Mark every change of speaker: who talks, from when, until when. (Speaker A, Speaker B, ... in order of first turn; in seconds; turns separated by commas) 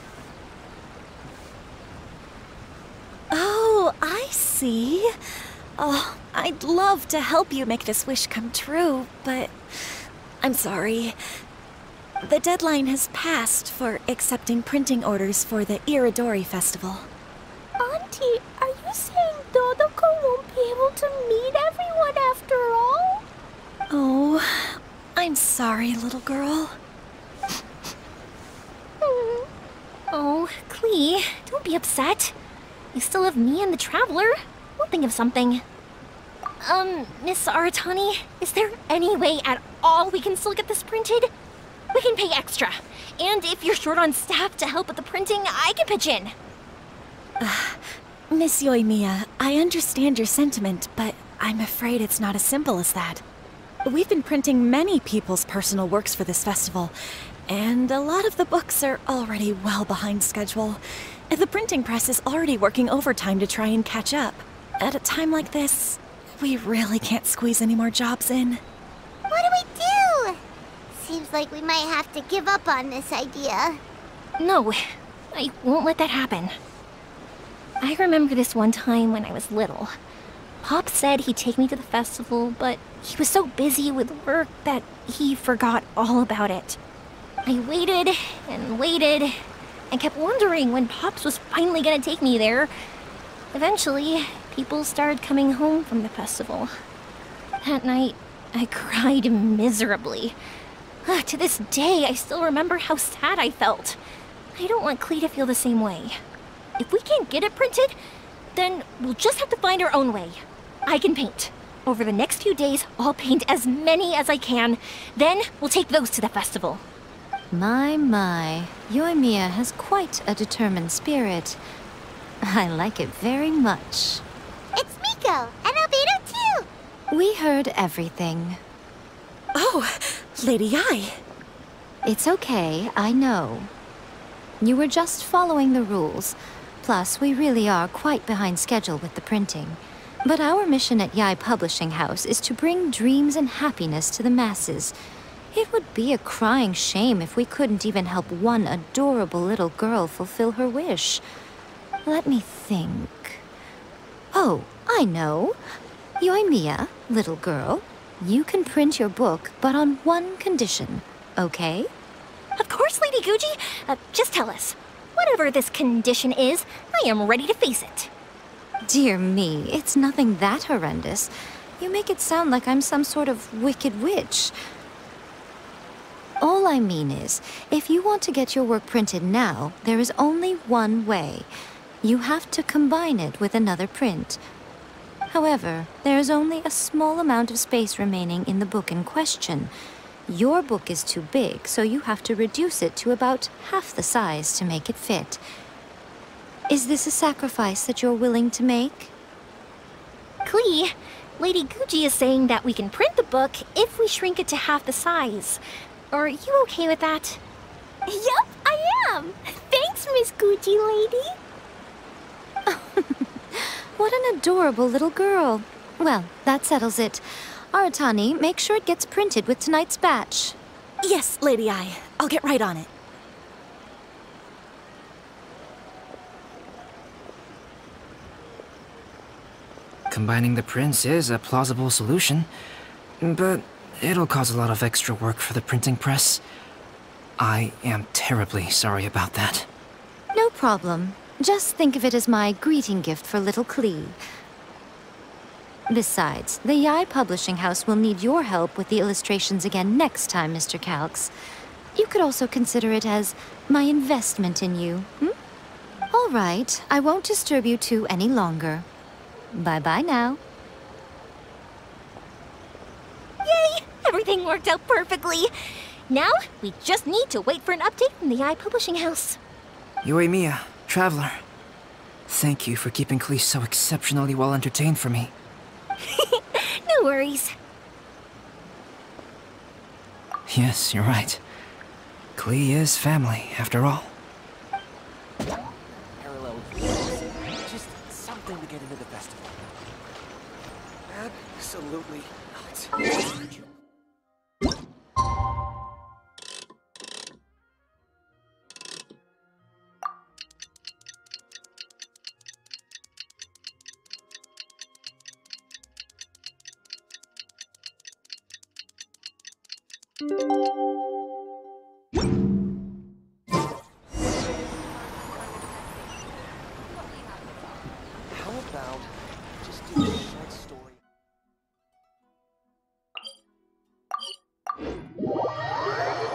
Speaker A: 3.3-5.1, Speaker A: 5.8-11.2, Speaker A: 12.2-17.1, Speaker B: 17.8-23.2, Speaker A: 23.9-26.8, Speaker B: 29.0-29.5, Speaker C: 30.1-32.4, Speaker C: 32.9-35.6, Speaker C: 36.6-41.3, Speaker C: 41.9-46.3, Speaker A: 47.4-53.2, Speaker A: 53.9-56.9, Speaker A: 57.5-68.6, Speaker D: 69.3-70.4, Speaker D: 70.9-73.8, Speaker C: 74.4-76.6, Speaker C: 77.8-79.9, Speaker C: 80.6-86.8, Speaker C: 87.5-92.7, Speaker C: 93.5-96.7, Speaker C: 97.6-100.4, Speaker C: 101.0-104.0, Speaker C: 104.5-106.2, Speaker C: 106.8-108.0, Speaker C: 108.5-116.8, Speaker E: 117.5-121.6, Speaker E: 122.4-124.2, Speaker D: 124.8-126.7, Speaker E: 127.1-128.6, Speaker A: 129.6-131.2, Speaker E: 132.1-133.7, Speaker E: 134.6-144.9, Speaker E: 145.5-151.2, Speaker E: 152.1-153.4, Speaker E: 154.3-155.6, Speaker E: 156.2-161.9, Speaker C: 162.6-168.1, Speaker E: 168.9-174.5, Speaker E: 176.4-181.5, Speaker E: 182.0-184.4, Speaker E: 185.3-189.7, Speaker E: 190.3-195.4, Speaker E: 196.7-199.1, Speaker C: 200.4-205.6, Speaker C: 206.1-207.4, Speaker B: 208.1-211.3, Speaker E: 212.7-220.6, Speaker A: 221.0-222.9, Speaker F: 230.1-232.5, Speaker F: 233.2-236.4, Speaker F: 237.4-239.7, Speaker E: 240.3-244.2, Speaker E: 245.9-251.3, Speaker E: 251.9-255.3, Speaker E: 256.1-258.9, Speaker E: 259.5-260.4, Speaker C: 263.4-265.5, Speaker C: 266.1-269.4, Speaker F: 270.0-271.4, Speaker F: 272.3-275.3, Speaker C: 276.0-277.5, Speaker F: 280.5-281.4, Speaker F: 282.4-284.1, Speaker G: 286.2-286.9, Speaker G: 287.6-289.5, Speaker G: 291.1-292.8